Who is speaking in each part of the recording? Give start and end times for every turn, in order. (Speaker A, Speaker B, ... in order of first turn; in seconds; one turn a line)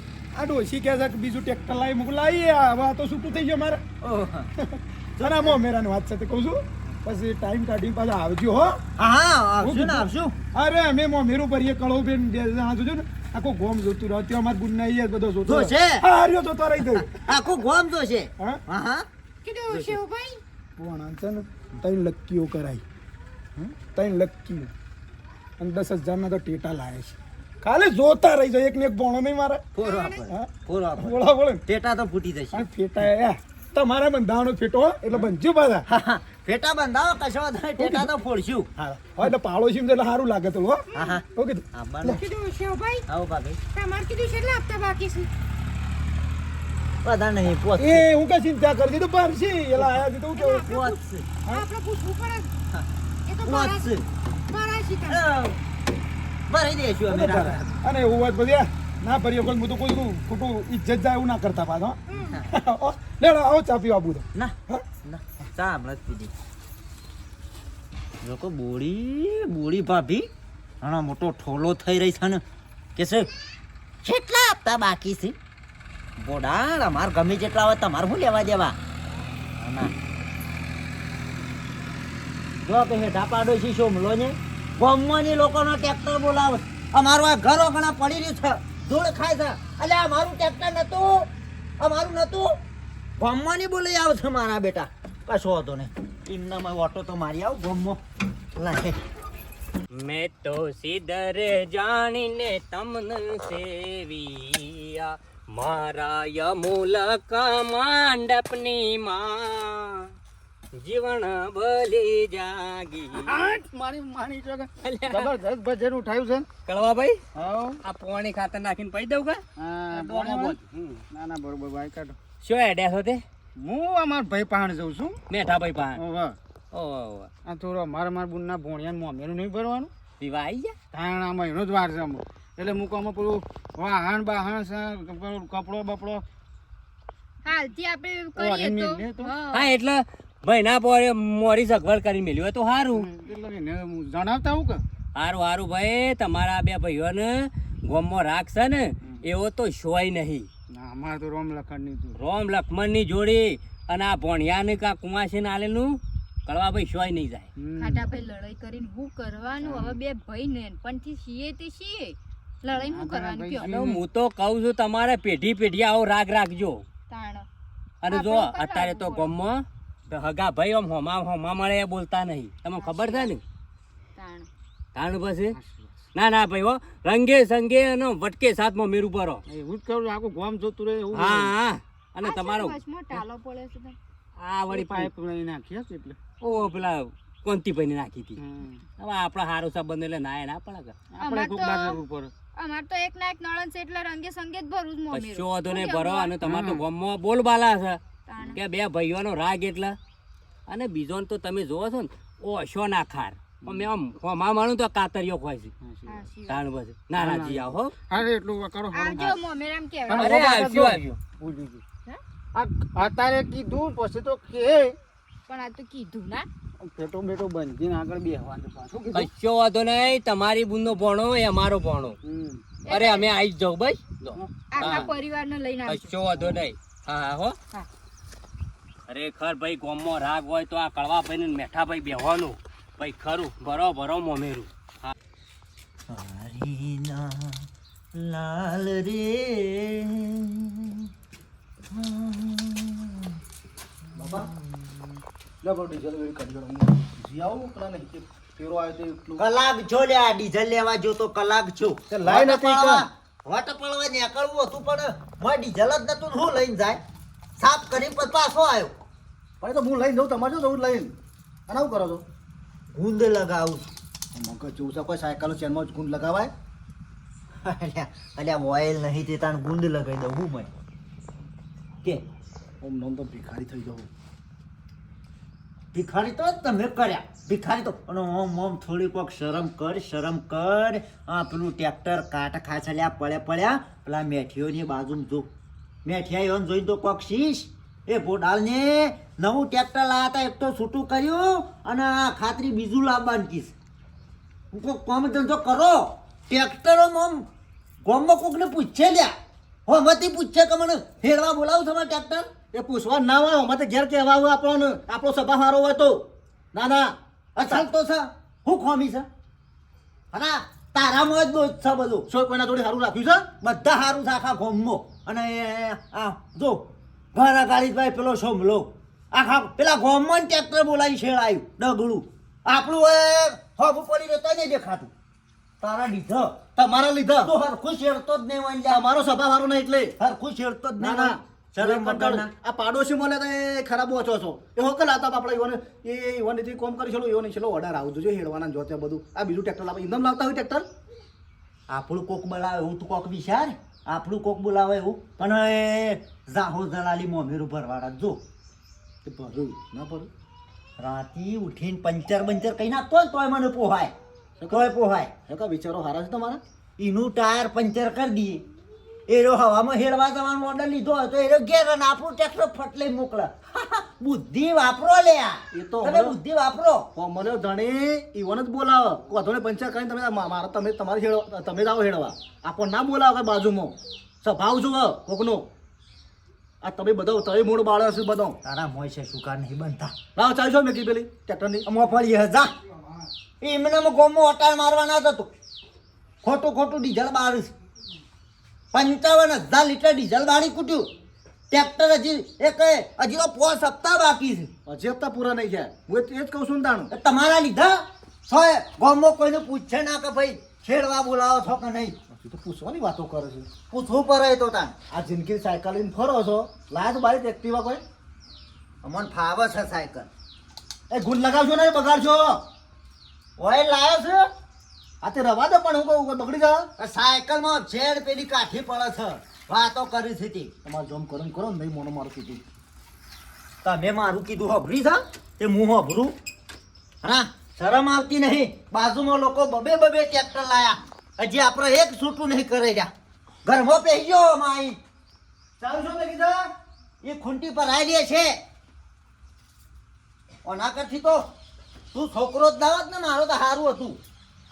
Speaker A: 0.3-3.8
Speaker B: 4.0-4.5
Speaker A: 4.6-8.8
Speaker B: 5.2-5.6
Speaker B: 9.0-10.3
Speaker A: 9.6-17.1
Speaker B: 15.4-16.0
Speaker B: 16.9-19.1
Speaker C: 19.4-20.4
Speaker B: 19.7-20.0
Speaker A: 20.8-22.8
Speaker A: 23.9-24.7
Speaker A: 25.6-29.7
Speaker B: 29.8-33.1
Speaker C: 29.8-30.2
Speaker A: 31.0-31.6
Speaker A: 32.5-35.8
Speaker B: 35.9-39.3
Speaker A: 37.8-38.1
Speaker A: 39.2-42.2
Speaker C: 40.9-41.2
Speaker B: 40.9-42.2
Speaker C: 42.1-43.0
Speaker B: 43.1-43.6
Speaker C: 43.7-45.3
Speaker B: 47.0-48.1
Speaker A: 47.8-50.7
Speaker B: 49.8-50.0
Speaker C: 50.3-52.5
Speaker B: 50.6-51.3
Speaker C: 53.3-53.9
Speaker B: 53.4-54.0
Speaker C: 54.5-55.2
Speaker B: 55.1-55.6
Speaker B: 56.5-57.8
Speaker A: 57.1-64.8
Speaker C: 62.1-62.4
Speaker B: 64.3-66.3
Speaker B: 68.2-70.3
Speaker B: 70.8-72.4
Speaker B: 73.0-73.3
Speaker B: 74.0-75.3
Speaker B: 76.2-78.8
Speaker B: 79.6-79.9
Speaker B: 82.6-92.5
Speaker B: 93.2-98.0
Speaker B: 98.5-99.0
Speaker D: 100.0-110.1
Speaker D: 110.7-113.4
Speaker E: 113.1-116.5
Speaker D: 114.8-115.3
Speaker D: 116.7-117.2
Speaker E: 117.3-117.8
Speaker D: 117.8-120.6
Speaker E: 119.6-122.2
Speaker D: 122.4-123.2
Speaker E: 123.6-125.2
Speaker D: 125.3-126.0
Speaker E: 126.0-126.3
Speaker D: 126.7-127.3
Speaker E: 127.5-129.9
Speaker D: 130.2-130.7
Speaker E: 130.9-136.2
Speaker F: 137.4-139.7
Speaker E: 138.3-139.3
Speaker D: 139.5-143.1
Speaker E: 142.9-144.8
Speaker D: 145.1-150.5
Speaker E: 150.7-152.2
Speaker D: 152.2-157.5
Speaker E: 157.6-158.0
Speaker F: 157.8-163.8
Speaker E: 159.6-160.0
Speaker E: 162.8-164.0
Speaker D: 163.6-166.8
Speaker F: 167.1-167.5
Speaker D: 168.0-173.4
Speaker F: 168.1-169.3
Speaker F: 172.8-173.3
Speaker F: 174.2-174.5
Speaker D: 174.9-175.6
Speaker E: 175.5-176.0
Speaker D: 176.1-179.4
Speaker E: 179.5-181.5
Speaker D: 181.1-183.2
Speaker F: 182.2-184.0
Speaker D: 184.4-185.1
Speaker E: 184.7-186.2
Speaker D: 186.4-188.4
Speaker E: 188.4-188.8
Speaker D: 189.0-191.0
Speaker E: 191.2-192.3
Speaker F: 191.2-192.0
Speaker F: 192.6-196.3
Speaker D: 195.1-200.0
Speaker E: 196.4-196.8
Speaker F: 198.3-198.6
Speaker D: 200.7-205.7
Speaker E: 203.6-203.9
Speaker E: 205.8-206.2
Speaker F: 206.1-206.6
Speaker D: 206.5-207.9
Speaker E: 207.2-209.4
Speaker F: 208.9-210.4
Speaker E: 210.1-211.8
Speaker D: 210.2-211.0
Speaker E: 212.5-215.0
Speaker F: 215.5-216.5
Speaker E: 216.8-219.3
Speaker D: 219.1-222.2
Speaker E: 222.2-222.7
Speaker F: 222.8-223.3
Speaker D: 222.9-225.1
Speaker E: 224.3-225.1
Speaker F: 224.7-226.1
Speaker D: 225.9-227.6
Speaker D: 229.1-235.1
Speaker B: 236.1-241.1
Speaker B: 241.9-243.4
Speaker G: 244.1-244.5
Speaker B: 244.1-244.8
Speaker G: 245.6-249.4
Speaker B: 249.4-257.0
Speaker G: 252.1-253.1
Speaker B: 257.6-259.0
Speaker G: 259.6-261.1
Speaker G: 261.7-262.2
Speaker B: 262.9-263.9
Speaker G: 264.3-266.5
Speaker B: 267.6-270.7
Speaker G: 272.8-274.1
Speaker B: 275.9-285.5
Speaker B: 286.1-293.7
Speaker B: 294.7-297.4
Speaker B: 298.0-299.3
Speaker B: 299.9-302.5
Speaker G: 302.7-307.1
Speaker B: 307.6-309.3
Speaker B: 310.3-312.3
Speaker G: 312.3-313.5
Speaker B: 313.6-325.1
Speaker B: 325.8-326.6
Speaker G: 326.8-327.5
Speaker B: 327.4-329.1
Speaker G: 328.9-330.1
Speaker B: 330.2-332.5
Speaker G: 331.0-340.9
Speaker B: 341.9-348.4
Speaker G: 349.2-350.3
Speaker B: 351.0-354.1
Speaker G: 354.6-354.9
Speaker B: 354.7-355.3
Speaker G: 355.4-356.6
Speaker B: 357.0-358.6
Speaker B: 359.3-367.1
Speaker G: 365.7-366.4
Speaker G: 367.1-375.7
Speaker G: 376.8-378.6
Speaker B: 378.6-380.3
Speaker G: 380.3-381.9
Speaker B: 381.9-382.7
Speaker B: 383.6-385.5
Speaker B: 386.4-387.7
Speaker B: 388.9-391.1
Speaker B: 391.7-394.7
Speaker G: 394.9-397.1
Speaker B: 397.1-402.1
Speaker G: 402.3-403.7
Speaker B: 403.9-405.0
Speaker G: 405.1-408.0
Speaker B: 409.0-410.3
Speaker G: 411.1-412.6
Speaker B: 413.6-414.5
Speaker G: 415.2-416.9
Speaker B: 417.0-420.7
Speaker G: 420.8-422.6
Speaker B: 423.8-426.3
Speaker B: 427.2-433.1
Speaker B: 433.6-435.0
Speaker B: 435.8-436.7
Speaker B: 437.2-438.5
Speaker B: 440.6-441.4
Speaker B: 442.1-444.2